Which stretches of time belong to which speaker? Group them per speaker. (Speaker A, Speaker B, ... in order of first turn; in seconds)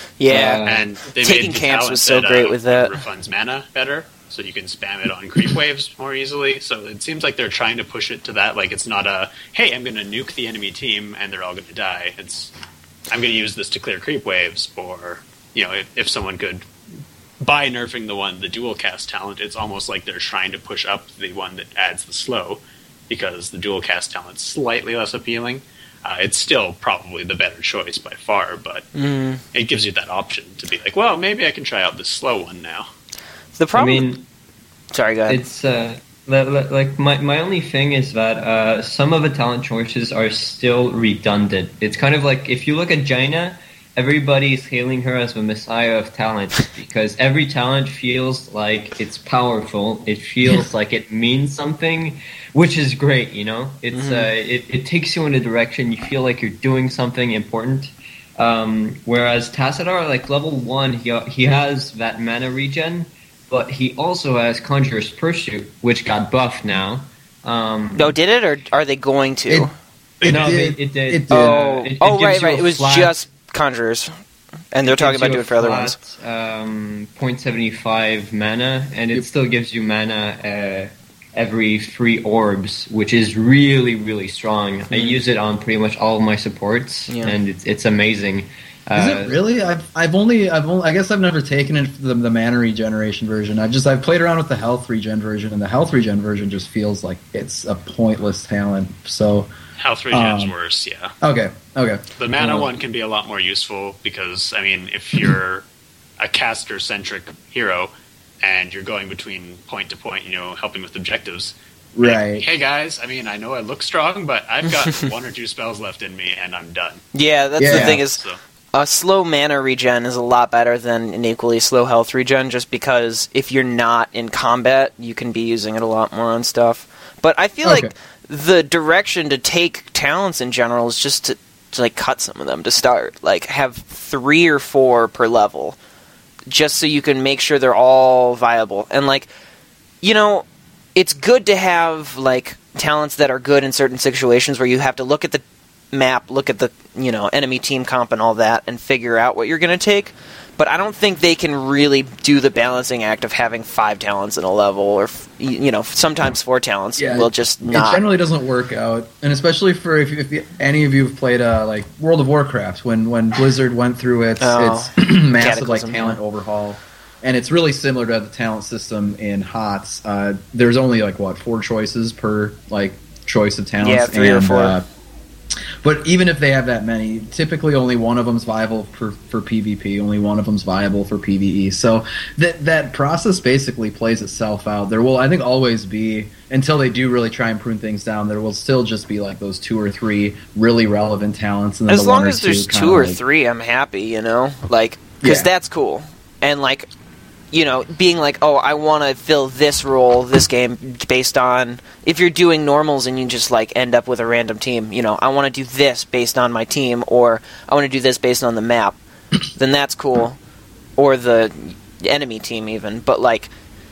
Speaker A: 0.2-0.7, 1.2-3.0, 28.9-29.4, 33.6-34.1, 34.9-35.4, 53.9-54.3, 68.0-69.7, 71.3-74.1, 74.7-76.0, 84.9-85.2, 87.1-87.3, 117.1-118.2, 118.7-135.8, 136.5-139.3, 140.0-140.4, 141.0-158.0, 164.4-166.2, 173.8-174.8, 191.9-196.9, 197.5-209.0, 209.5-210.4, 211.0-213.5
Speaker B: 0.3-0.9, 33.7-34.3, 35.3-68.2, 70.2-73.2, 74.8-89.4
Speaker C: 0.6-12.5, 13.1-16.6, 17.4-28.9, 29.5-32.9, 70.2-70.6, 99.8-101.1, 102.2-105.7, 106.2-117.0, 117.6-118.4
Speaker D: 70.2-71.5, 88.9-99.5, 100.1-100.5, 101.2-102.7, 112.0-112.5, 117.6-118.0, 127.6-127.9, 157.0-174.8, 175.8-193.2, 195.2-195.5